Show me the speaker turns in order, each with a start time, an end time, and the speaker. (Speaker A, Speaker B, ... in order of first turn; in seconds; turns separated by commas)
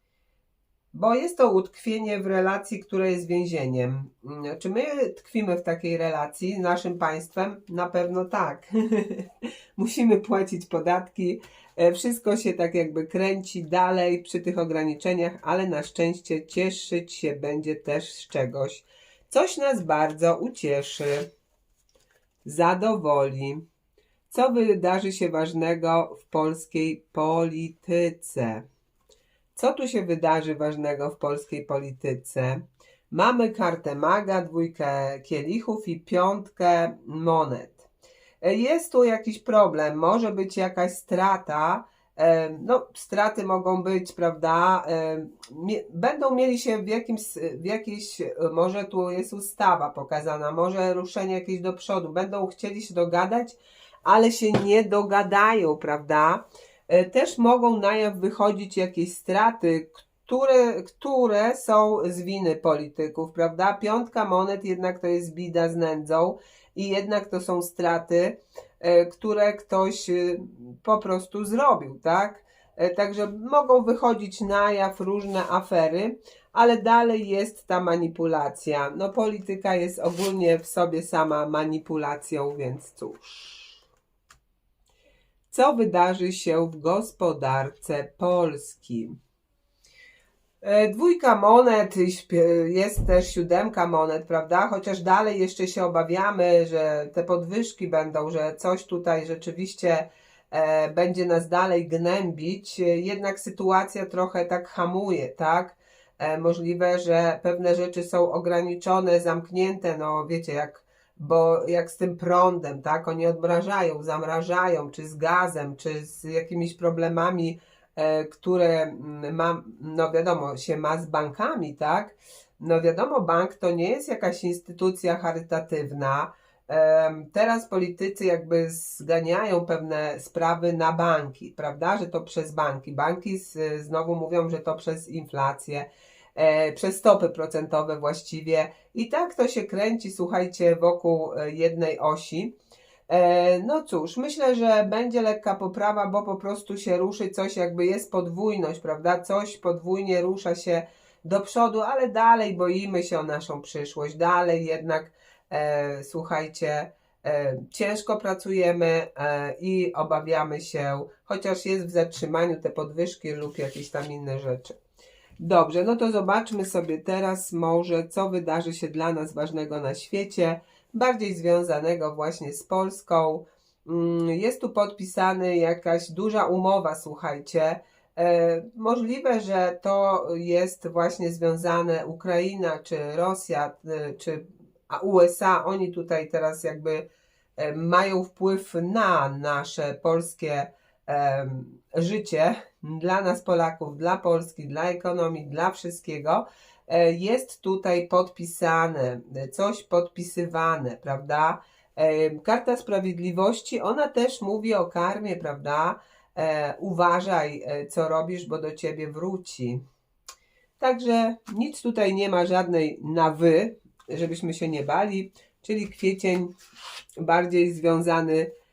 Speaker A: 0.9-21.3, Speaker A: 22.4-23.6, Speaker A: 24.3-28.6, Speaker A: 29.6-37.9, Speaker A: 38.4-83.8, Speaker A: 85.5-89.2, Speaker A: 90.6-142.5, Speaker A: 143.1-164.8, Speaker A: 165.4-187.1, Speaker A: 187.6-209.8, Speaker A: 210.8-216.5, Speaker A: 217.2-218.5